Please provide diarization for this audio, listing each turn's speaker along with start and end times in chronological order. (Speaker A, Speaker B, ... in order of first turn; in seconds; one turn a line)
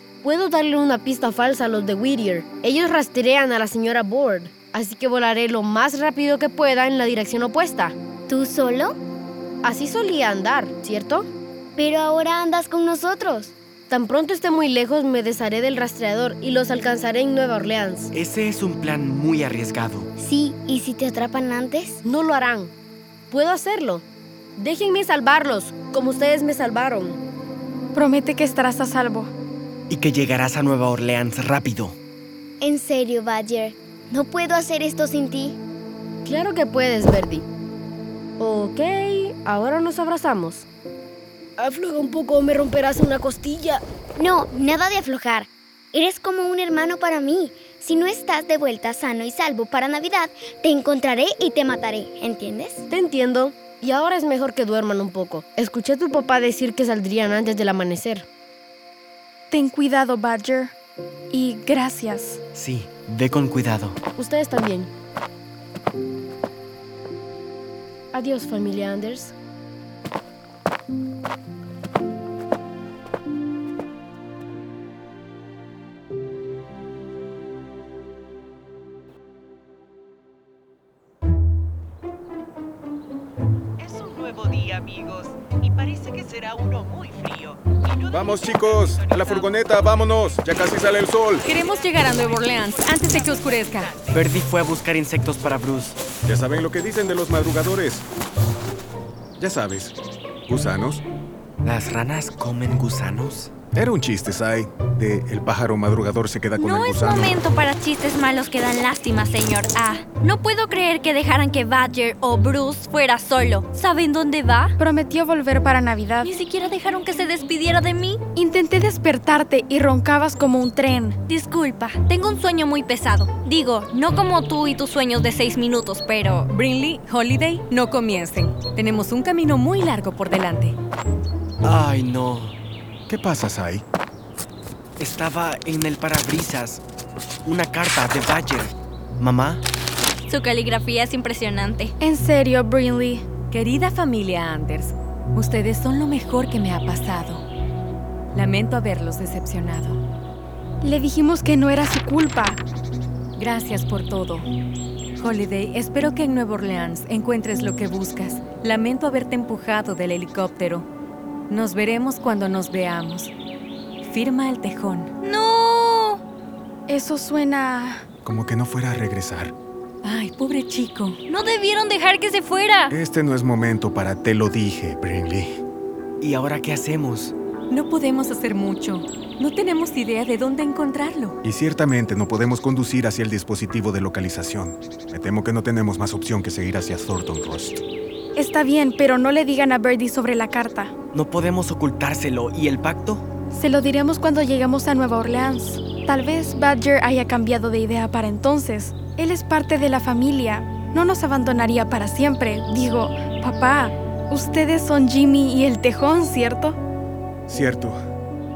Speaker A: 0.2-8.0
Speaker B: 8.3-9.0
Speaker A: 9.6-11.3
Speaker B: 11.8-13.5
Speaker A: 13.9-18.1
Speaker C: 18.1-20.1
Speaker B: 20.2-22.0
Speaker A: 22.0-22.7
Speaker A: 23.3-24.0
Speaker A: 24.6-27.2
Speaker D: 27.9-29.3
Speaker C: 29.9-32.0
Speaker B: 32.6-35.6
Speaker A: 36.2-37.5
Speaker A: 38.4-40.6
Speaker A: 41.6-43.8
Speaker B: 44.2-52.8
Speaker A: 52.9-58.2
Speaker D: 59.5-60.7
Speaker D: 61.3-62.4
Speaker C: 62.5-64.0
Speaker A: 64.2-64.9
Speaker A: 68.1-69.3
Speaker E: 83.9-87.5
Speaker E: 88.0-89.4
Speaker F: 88.1-91.5
Speaker G: 91.5-93.9
Speaker E: 92.2-93.2
Speaker C: 94.1-96.0
Speaker F: 96.2-98.0
Speaker F: 99.4-100.0
Speaker F: 100.5-101.0
Speaker C: 101.6-103.5
Speaker F: 103.7-107.4
Speaker H: 106.6-114.7
Speaker D: 114.8-116.3
Speaker H: 116.2-118.2
Speaker D: 118.3-121.2
Speaker H: 121.3-126.5
Speaker G: 126.5-130.8
Speaker C: 131.6-132.6
Speaker F: 133.1-133.8
Speaker C: 135.0-136.8
Speaker C: 137.4-139.6
Speaker H: 140.3-141.9
Speaker D: 142.0-143.3
Speaker G: 143.5-147.4
Speaker G: 148.3-150.0
Speaker D: 150.8-152.6
Speaker G: 153.3-154.5
Speaker G: 155.2-160.9
Speaker G: 161.5-163.3
Speaker G: 164.0-165.1
Speaker H: 165.2-166.2
Speaker D: 166.9-168.0
Speaker F: 168.2-169.5
Speaker G: 170.0-171.2
Speaker H: 171.3-172.9
Speaker F: 172.9-175.5
Speaker C: 176.2-177.3
Speaker G: 177.7-181.4
Speaker F: 181.4-187.8
Speaker D: 188.3-190.9
Speaker C: 191.1-193.2
Speaker D: 193.5-206.8
Speaker F: 207.5-207.9